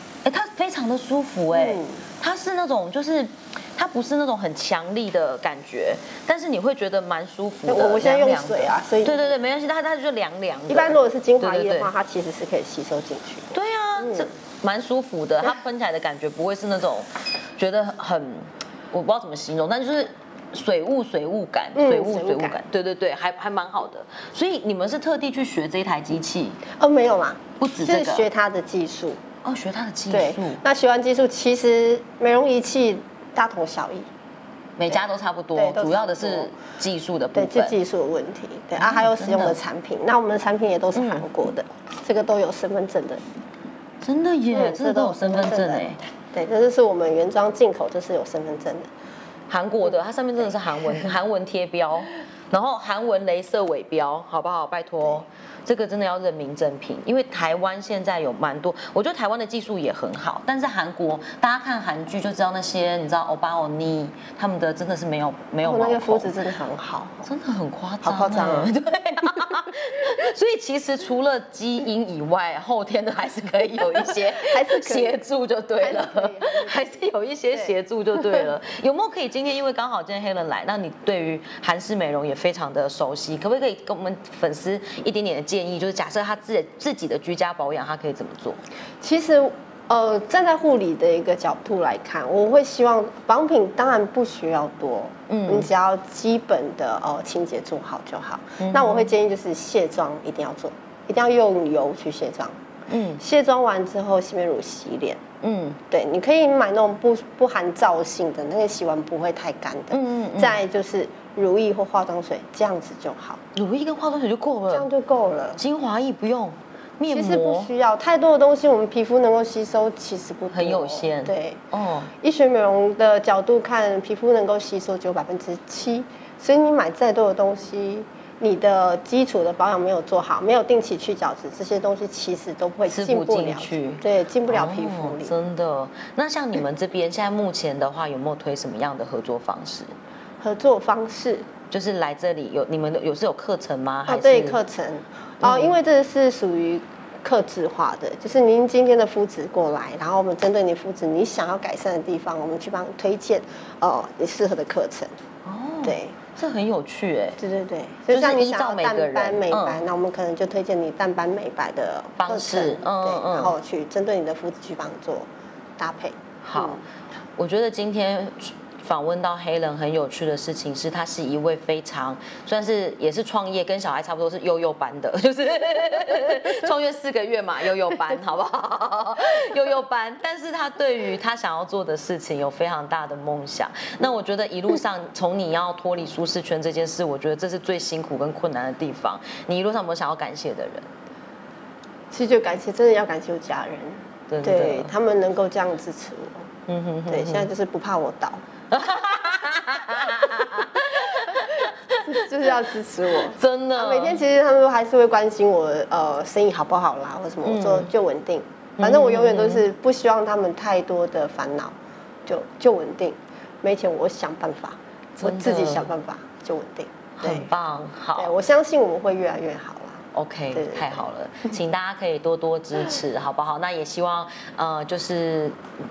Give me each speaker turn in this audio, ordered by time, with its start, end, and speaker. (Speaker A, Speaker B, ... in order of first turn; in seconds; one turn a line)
Speaker A: 0.2-11.9
Speaker B: 1.5-2.0
Speaker B: 7.7-9.4
Speaker B: 10.7-14.3
Speaker A: 13.5-26.6
Speaker B: 21.7-22.6
Speaker B: 26.7-29.2
Speaker A: 27.6-28.3
Speaker A: 29.4-30.6
Speaker B: 30.1-34.1
Speaker A: 34.8-37.7
Speaker B: 34.9-36.5
Speaker B: 37.3-43.2
Speaker A: 38.8-39.6
Speaker A: 40.9-41.2
Speaker A: 44.0-46.0
Speaker B: 44.5-48.9
Speaker A: 49.5-66.3
Speaker B: 49.9-50.5
Speaker B: 65.6-67.2
Speaker A: 67.2-88.6
Speaker B: 68.0-68.7
Speaker B: 74.1-75.2
Speaker B: 75.8-77.0
Speaker B: 89.0-102.6
Speaker A: 95.3-95.7
Speaker A: 98.6-99.1
Speaker A: 102.9-103.2
Speaker B: 103.2-105.2
Speaker A: 105.4-105.8
Speaker B: 105.9-113.4
Speaker A: 109.9-110.6
Speaker A: 113.5-114.9
Speaker B: 114.7-115.6
Speaker A: 115.6-117.7
Speaker B: 117.1-121.6
Speaker A: 120.5-122.1
Speaker B: 122.2-135.3
Speaker A: 132.9-139.9
Speaker B: 140.4-141.5
Speaker A: 141.7-144.6
Speaker B: 144.1-155.1
Speaker A: 145.4-145.8
Speaker A: 155.4-157.4
Speaker B: 155.8-156.2
Speaker B: 157.4-166.8
Speaker A: 158.1-159.8
Speaker A: 162.2-163.6
Speaker A: 166.4-166.8
Speaker A: 167.4-190.9
Speaker B: 192.1-196.5
Speaker A: 194.3-194.9
Speaker A: 196.7-197.5
Speaker B: 197.1-198.4
Speaker A: 198.7-202.1
Speaker B: 202.0-211.7
Speaker A: 203.3-204.2
Speaker A: 207.4-207.9
Speaker A: 208.8-209.6
Speaker B: 212.2-217.5
Speaker A: 215.2-215.9
Speaker A: 217.2-218.3
Speaker B: 218.2-221.1
Speaker A: 220.1-225.6